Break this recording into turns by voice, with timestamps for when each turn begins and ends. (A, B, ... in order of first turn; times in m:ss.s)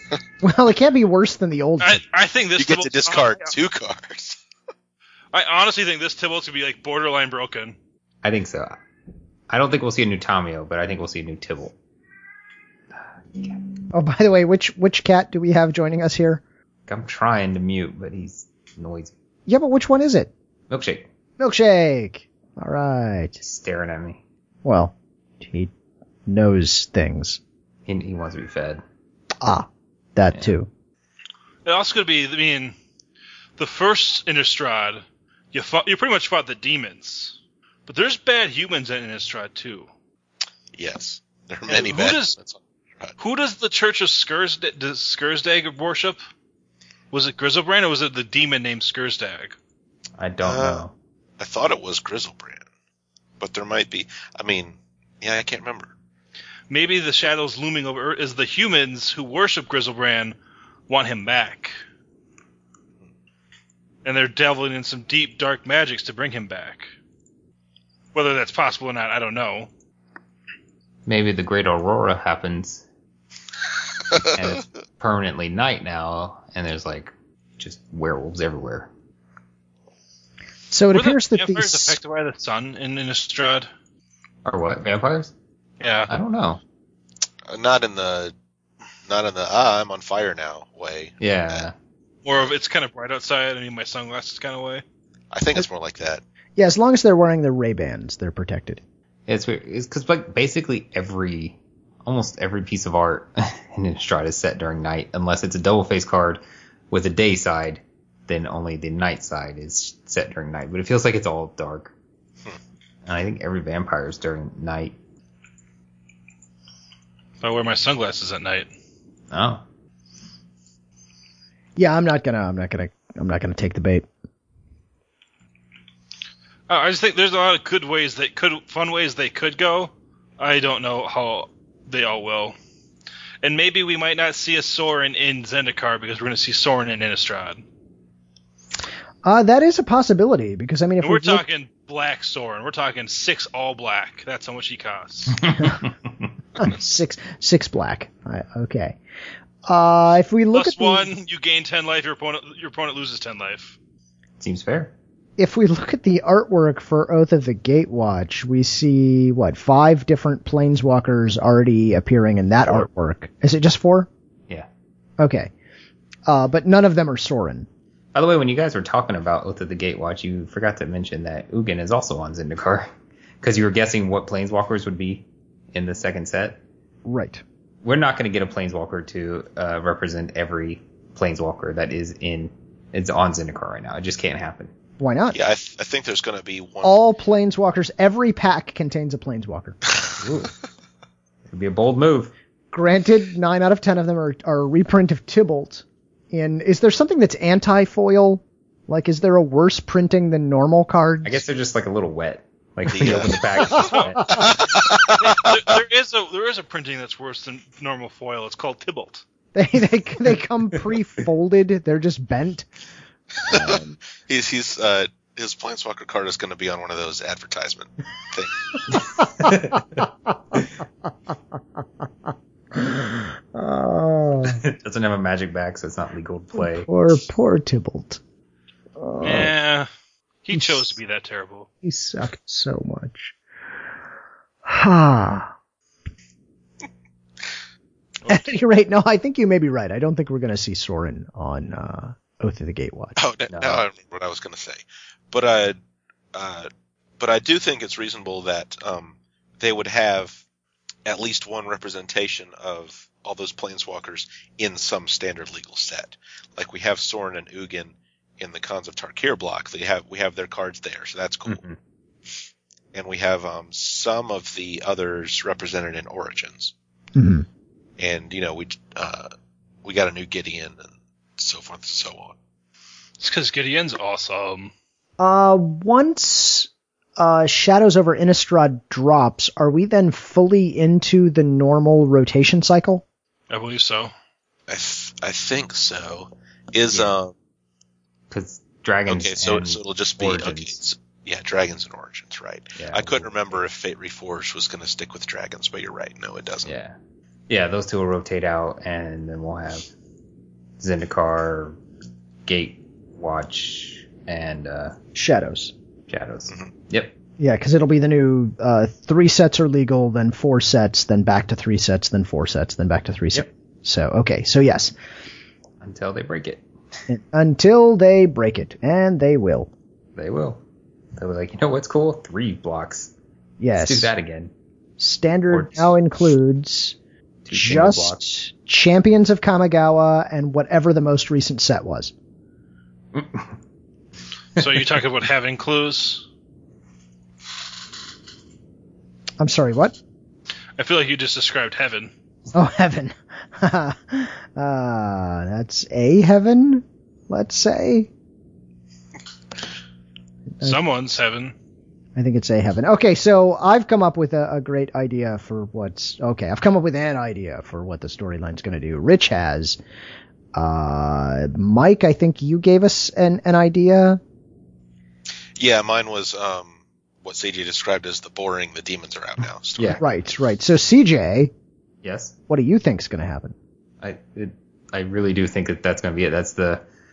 0:00.4-0:02.0 A
0:01.8-0:03.5 B
0:02.6-0:04.4 C
0:05.3-0:07.8 B
0:08.2-0:08.8 D
0:09.5-0:11.7 D
0:13.9-0:16.4 A
0:16.9-0:19.1 D
0:19.5-0:20.3 A
0:20.7-0:21.1 D
0:21.4-0:23.4 A
0:23.4-0:24.2 D
0:24.6-0:25.7 A
0:26.3-0:27.4 A
0:27.8-0:28.8 D
0:29.4-0:30.7 A
0:31.6-0:32.7 B
0:33.6-0:39.9 B
0:40.8-0:43.1 C
0:41.7-0:42.3 B
0:43.2-0:46.2 B
0:47.1-0:49.6 B
0:50.2-0:50.9 D
0:50.4-0:50.8 C
0:51.4-0:52.6 C
0:53.4-0:55.9 C
0:56.7-1:00.4 B
1:00.9-1:01.7 B
1:04.0-1:06.9 B
1:08.1-1:09.7 B
1:11.0-1:12.8 D
1:14.2-1:18.9 D
1:20.7-1:22.0 A
1:20.9-1:23.7 B
1:24.4-1:25.3 D
1:25.8-1:26.1 B
1:26.1-1:26.6 D
1:27.5-1:28.3 C
1:29.1-1:31.7 C
1:31.2-1:31.7 D
1:32.2-1:34.8 B
1:35.3-1:36.2 C
1:36.6-1:38.8 A
1:39.3-1:51.9 D
1:53.0-1:54.9 D
1:57.4-1:58.7 B
1:59.3-1:59.6 D
2:01.8-2:04.0 A
2:06.7-2:12.6 B
2:13.4-2:17.6 B
2:19.2-2:21.4 A
2:21.0-2:25.4 B
2:25.4-2:25.9 D
2:26.6-2:29.0 A
2:29.6-2:31.1 A
2:30.5-2:33.8 B
2:34.4-2:34.9 D
2:35.4-2:44.1 A
2:45.2-2:45.5 A
2:46.3-2:47.7 A
2:48.1-2:52.9 D
2:53.4-2:56.6 D
2:57.0-2:57.4 A
2:57.8-3:04.7 D
3:05.0-3:05.4 A
3:05.3-3:07.0 C
3:06.8-3:09.8 A
3:10.2-3:10.5 D
3:11.5-3:12.3 D
3:12.7-3:21.4 A
3:21.2-3:24.6 D
3:22.9-3:25.4 C
3:23.8-3:24.1 B
3:25.2-3:29.2 B
3:29.5-3:32.7 A
3:33.5-3:34.0 A
3:33.5-3:39.0 C
3:39.4-3:39.8 D
3:42.7-3:44.6 A
3:44.4-3:46.9 D
3:46.5-3:48.2 A
3:49.0-3:49.5 A
3:49.2-3:49.9 B
3:50.4-3:51.7 B
3:50.5-3:50.8 A
3:51.8-3:53.3 A
3:54.6-3:55.5 A
3:58.2-4:03.2 A
4:03.2-4:05.8 C
4:03.5-4:03.8 D
4:06.3-4:10.4 C
4:11.0-4:21.6 C
4:21.4-4:21.8 D
4:22.9-4:26.7 C
4:27.1-4:27.4 A
4:28.0-4:29.3 C
4:29.8-4:32.4 C
4:33.2-4:34.7 B
4:35.2-4:43.0 A
4:43.5-4:44.1 B
4:44.7-4:47.3 C
4:48.3-4:50.8 D
4:49.1-4:56.7 C
4:52.8-4:53.6 D
4:56.6-4:57.0 D
4:57.5-4:59.9 D
5:00.8-5:01.8 D
5:02.4-5:05.0 D
5:05.1-5:05.7 A
5:06.1-5:07.1 D
5:07.4-5:14.9 A
5:15.8-5:16.6 D
5:17.1-5:19.7 A
5:20.2-5:20.6 D
5:21.1-5:23.1 D
5:23.6-5:24.1 A
5:23.8-5:24.5 D
5:25.0-5:27.0 A
5:25.5-5:25.9 D
5:27.4-5:28.2 D
5:27.5-5:32.1 A
5:33.1-5:33.5 D
5:34.6-5:36.2 B
5:39.4-5:40.0 A
5:40.8-5:42.1 B
5:42.5-5:48.1 A
5:50.6-5:51.5 B
5:52.2-5:59.8 A
6:00.5-6:04.2 A
6:05.6-6:10.0 C
6:10.0-6:11.5 A
6:12.0-6:12.3 D
6:12.5-6:13.5 A
6:14.0-6:16.8 D